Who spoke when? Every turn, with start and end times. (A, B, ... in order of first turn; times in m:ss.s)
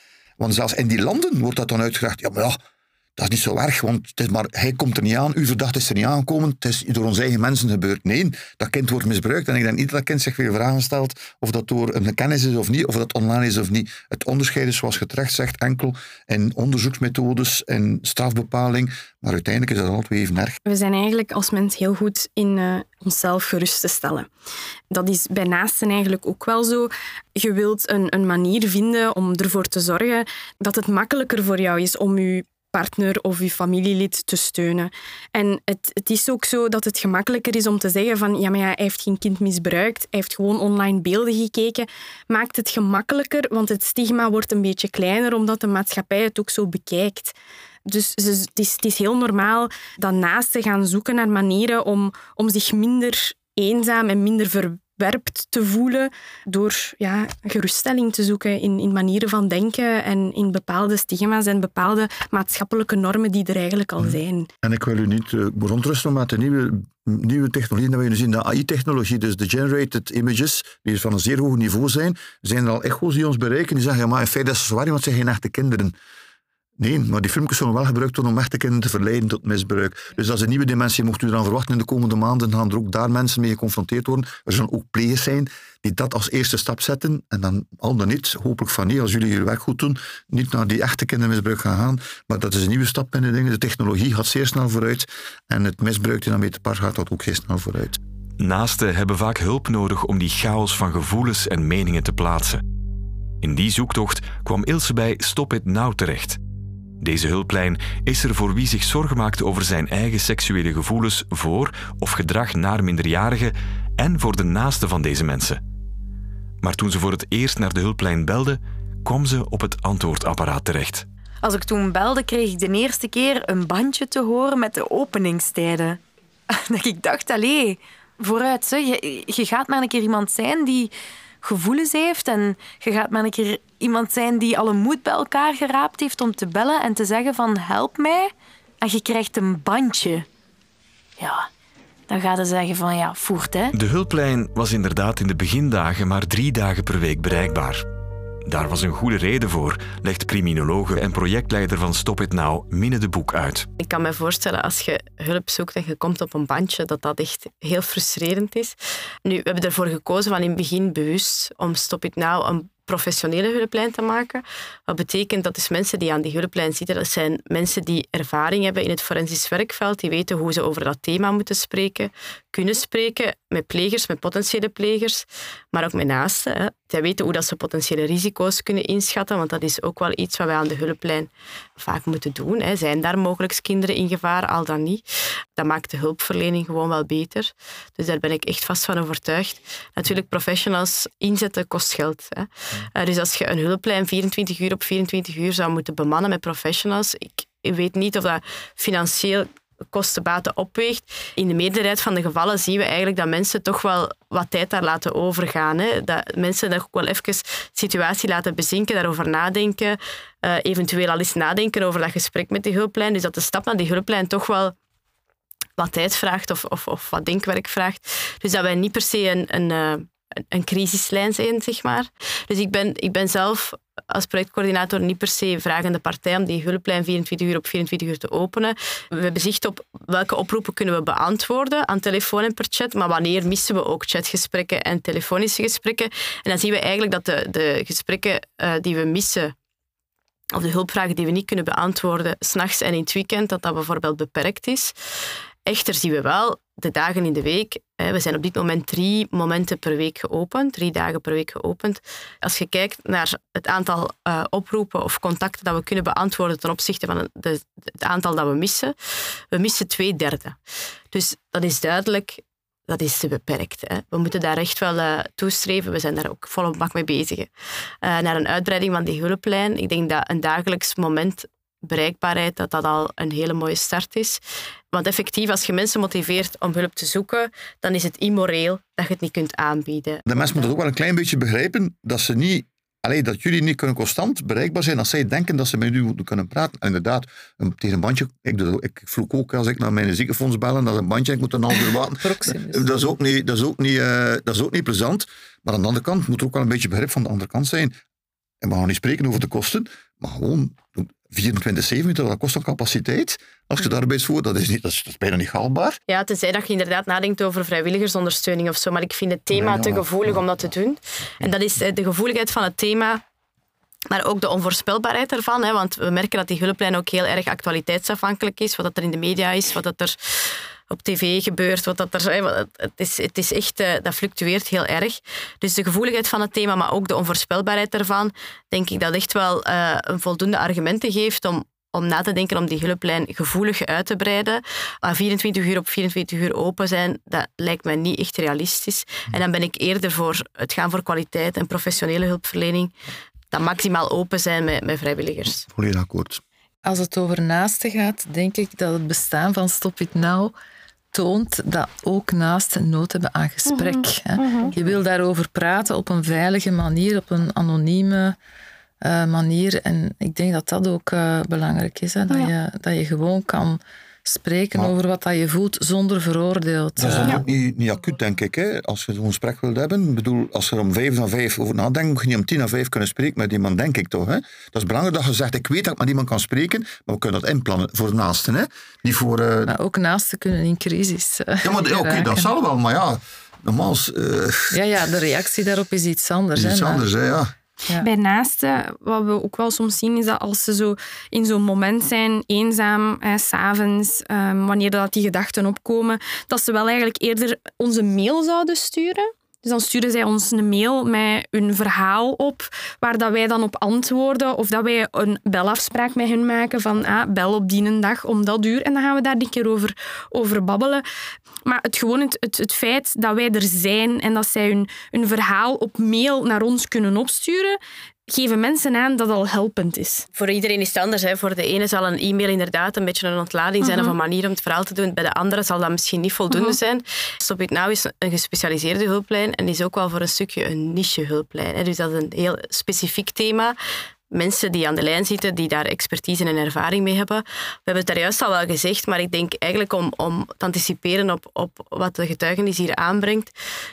0:00.4-0:02.6 A
0:03.2-0:20.6 A
0:20.6-0:24.3 B
0:24.9-1:04.5 B
1:04.0-1:15.9 A
1:16.8-1:38.0 A
1:38.4-1:42.6 C
1:43.4-1:46.4 C
1:47.0-1:55.6 C
1:56.6-2:01.0 C
2:01.4-2:10.9 D
2:11.4-2:20.2 D
2:21.2-2:21.5 D
2:22.1-2:23.7 D
2:23.7-2:27.8 C
2:28.4-2:33.7 C
2:33.8-3:05.0 E
3:05.6-3:34.7 E
3:35.8-3:59.5 E
4:00.5-4:04.9 E
4:05.6-4:18.9 E
4:19.5-4:20.6 E
4:21.1-4:27.5 E
4:28.0-4:34.4 E
4:34.9-4:40.4 E
4:40.3-4:58.0 A
4:52.2-4:53.1 F
4:58.6-5:06.0 A
5:06.1-5:13.2 E
5:09.5-5:10.4 A
5:14.1-5:42.9 E
5:43.5-5:45.6 E
5:45.7-5:46.4 A
5:46.8-5:50.5 F
5:51.1-5:58.4 F
5:53.7-5:54.7 B
5:59.0-6:07.4 F
6:07.0-6:19.7 A
6:19.7-6:22.5 F
6:21.6-6:25.2 A
6:24.7-6:27.0 F
6:26.5-6:27.5 A
6:28.0-6:51.0 B
6:51.6-7:00.2 B
7:00.3-7:13.8 E
7:03.8-7:04.2 B
7:06.5-7:06.8 B
7:14.3-7:23.5 E